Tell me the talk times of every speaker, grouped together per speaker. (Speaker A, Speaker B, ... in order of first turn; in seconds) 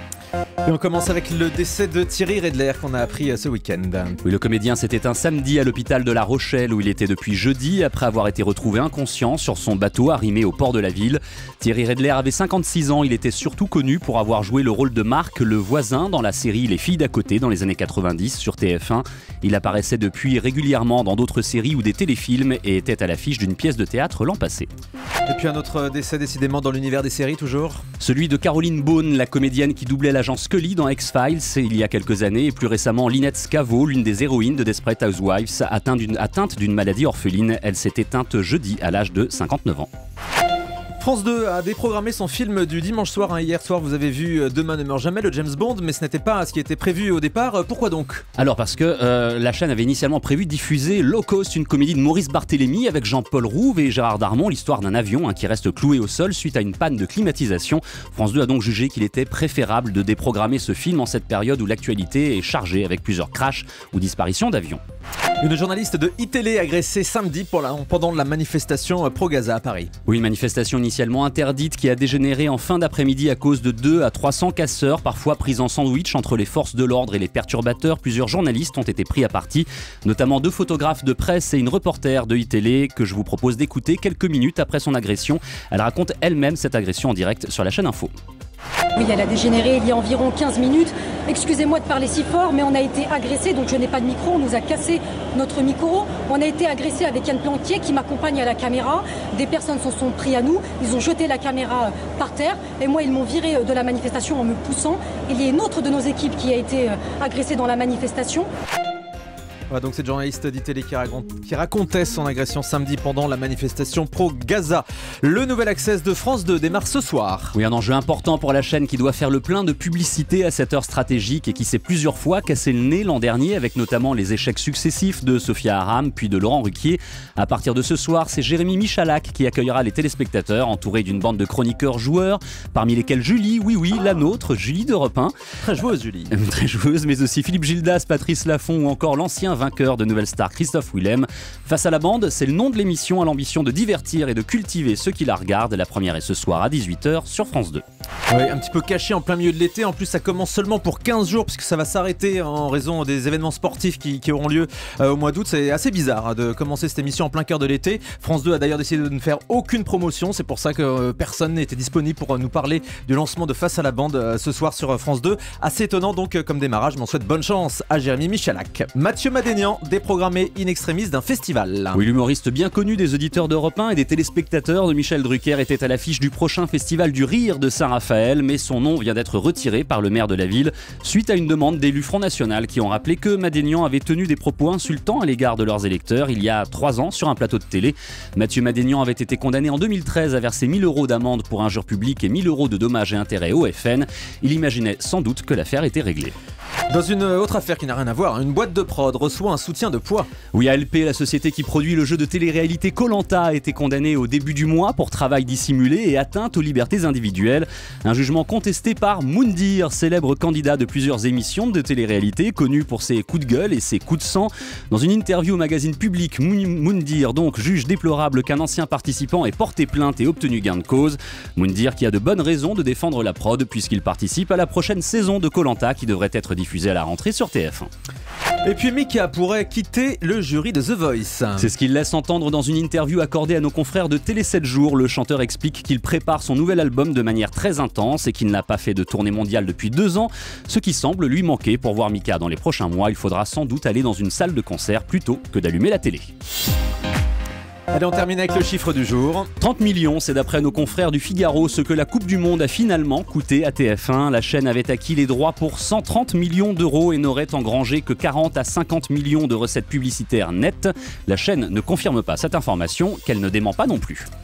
Speaker A: 0.6-4.2, 25.3-27.8, 41.0-48.2, 65.4-69.9, 109.7-117.5, 135.6-136.3, 148.3-172.0, 196.9-200.3, 228.6-231.7, 247.9-249.5
Speaker B: 4.2-24.7, 28.0-39.9, 48.4-64.8, 70.1-88.1, 117.5-135.3, 136.3-147.8, 171.9-196.3, 200.5-227.9, 231.6-246.3, 249.6-264.3
Speaker C: 89.0-108.5